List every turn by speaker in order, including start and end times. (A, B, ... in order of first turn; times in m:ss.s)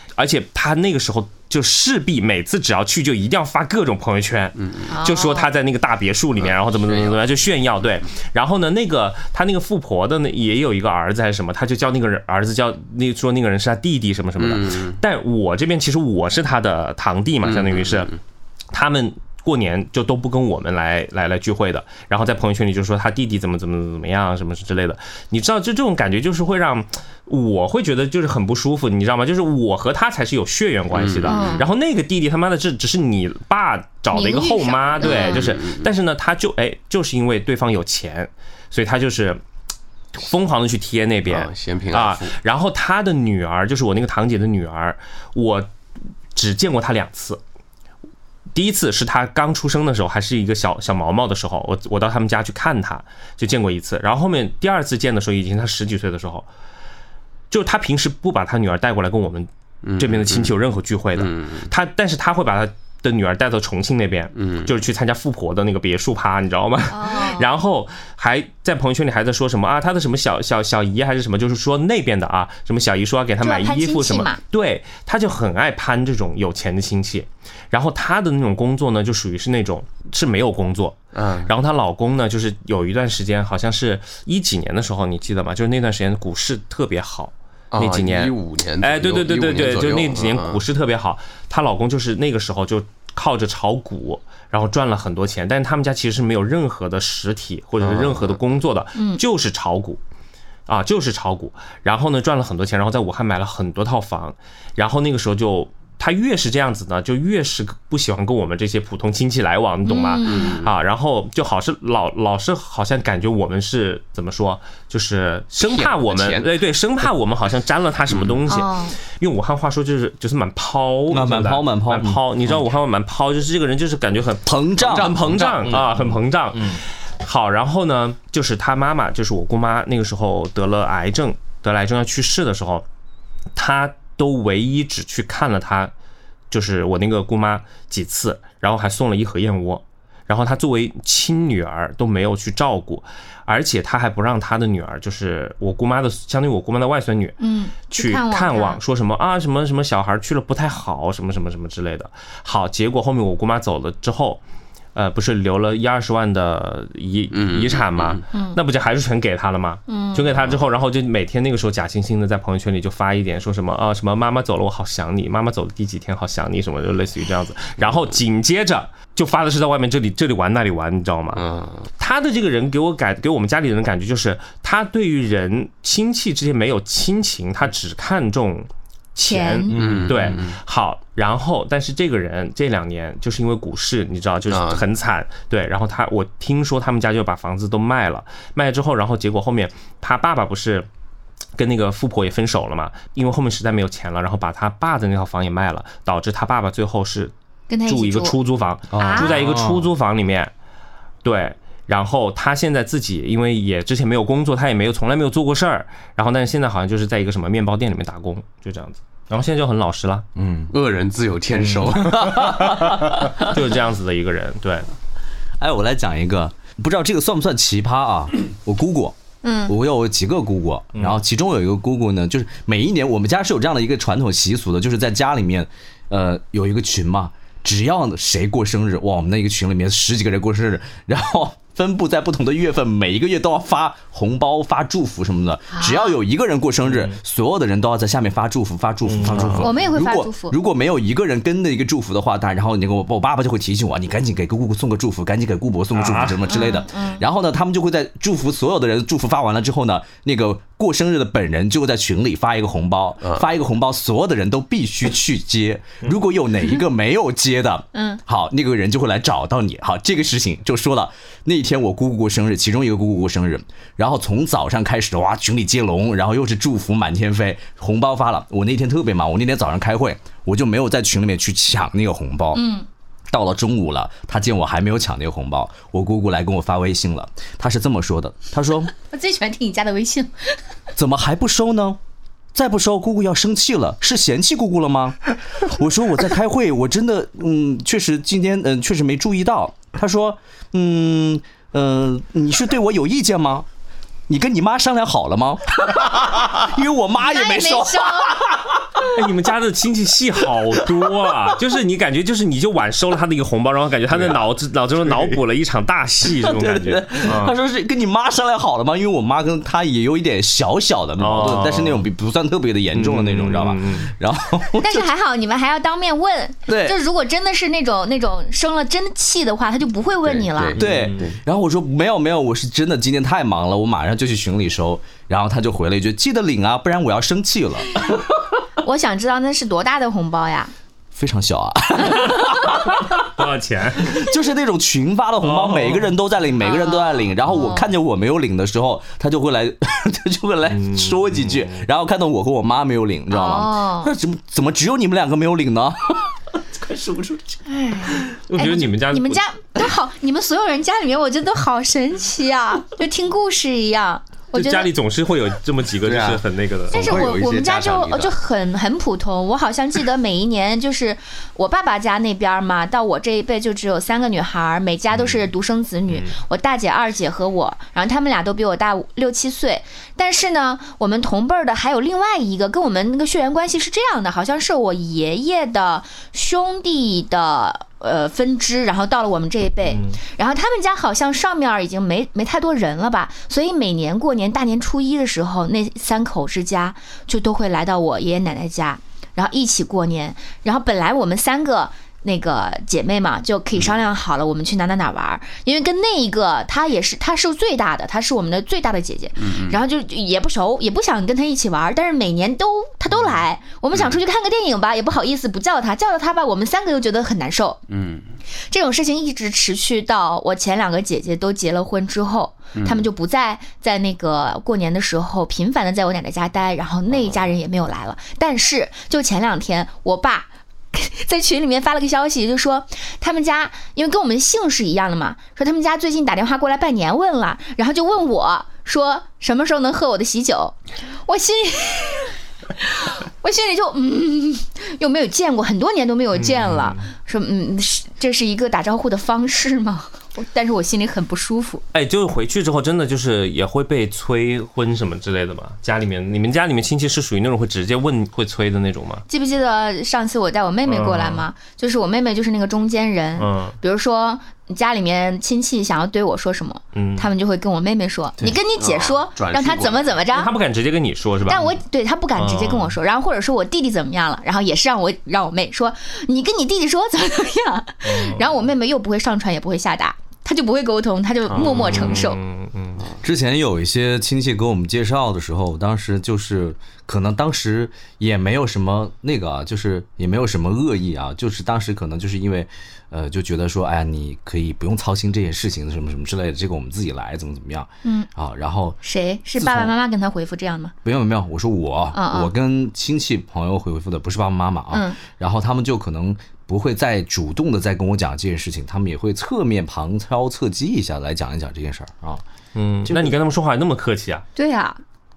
0:00.2-0:18.1 A
0:04.9-0:05.5 B
0:14.4-0:15.0 C
0:17.5-0:18.1 C
0:18.7-0:39.4 A
0:30.9-0:31.6 C
0:31.3-0:31.7 B
0:34.1-0:35.5 B
0:35.1-0:35.9 C
0:40.2-0:45.7 A
0:41.3-0:42.3 C
0:46.3-0:47.4 A
0:48.5-0:56.5 A
0:57.5-1:40.0 A
0:59.8-1:00.5 C
1:01.2-1:01.7 C
1:04.4-1:04.7 C
1:06.9-1:07.5 B
1:13.4-1:14.4 B
1:21.1-1:21.5 C
1:27.7-1:30.6 C
1:37.8-1:38.4 C
1:39.0-1:39.2 B
1:40.7-2:12.8 A
1:49.8-1:50.5 B
1:50.2-1:50.7 C
1:55.6-1:56.5 C
1:58.5-1:59.0 B
2:01.1-2:02.2 D
2:04.4-2:06.1 D
2:04.8-2:05.8 C
2:13.6-2:15.9 A
2:16.5-2:34.4 A
2:27.4-2:28.8 B
2:34.9-3:10.9 A
2:37.3-2:38.2 C
2:38.3-2:38.6 B
2:39.9-2:40.3 B
2:51.3-2:51.8 C
2:59.2-2:59.7 B
2:59.7-3:00.6 C
2:59.8-3:00.1 D
3:04.5-3:04.8 C
3:11.6-3:17.3 A
3:17.7-3:18.3 B
3:17.9-3:20.5 A
3:18.9-3:19.9 D
3:19.0-3:19.5 B
3:21.2-3:30.3 A
3:30.4-3:30.7 D
3:30.7-3:33.3 C
3:31.5-3:34.9 A
3:32.6-3:32.9 D
3:35.6-4:32.6 D
3:39.4-3:39.7 B
3:55.7-3:56.2 B
3:56.8-3:57.2 A
3:59.0-3:59.8 A
3:59.4-3:59.7 C
3:59.6-4:00.6 B
4:05.9-4:06.4 A
4:06.4-4:07.2 B
4:17.9-4:18.2 B
4:32.5-4:32.8 B
4:33.3-4:38.9 D
4:39.0-4:40.6 B
4:41.0-4:42.0 D
4:42.5-4:53.6 D
4:54.3-4:59.1 D
4:57.2-4:58.4 B
4:59.1-5:07.5 A
5:00.4-5:01.1 D
5:04.1-5:04.4 D
5:05.0-5:05.4 D
5:06.2-5:15.1 D
5:11.2-5:12.1 A
5:12.9-5:14.1 A
5:14.8-5:20.8 B
5:16.7-5:17.0 D
5:20.2-5:21.4 C
5:20.8-5:21.3 A
5:20.8-5:28.0 D
5:28.8-5:30.7 B
5:31.1-5:33.2 D
5:33.0-5:34.2 A
5:34.0-5:47.6 D
5:35.4-5:36.1 A
5:36.6-5:37.9 B
5:40.7-5:41.8 A
5:43.3-5:44.1 B
5:47.7-5:54.9 B
5:48.5-5:49.4 A
5:54.5-5:57.4 A
5:56.0-5:58.4 C
5:56.9-6:47.8 B
6:05.1-6:05.5 A
6:06.1-6:06.4 A
6:19.8-6:20.2 A
6:39.4-6:39.8 C
6:47.9-6:48.3 C
6:48.7-7:21.8 B
6:52.7-6:53.1 C
7:16.3-7:17.1 A
7:21.9-7:29.2 A
7:29.3-7:40.5 B
7:30.8-7:31.4 A
7:33.4-7:33.8 A
7:36.9-7:37.3 A
7:38.8-7:40.2 C
7:40.3-7:41.8 A
7:41.4-7:52.4 B
7:42.3-7:43.0 A
7:48.0-7:48.6 A
7:51.5-7:51.8 C
7:51.5-7:53.1 A
7:53.2-8:09.0 D
8:09.0-8:10.9 B
8:09.6-8:09.9 D
8:11.0-8:22.4 D
8:12.1-8:12.5 B
8:14.9-8:15.2 B
8:22.7-8:24.4 A
8:23.0-8:23.3 D
8:24.6-8:25.0 B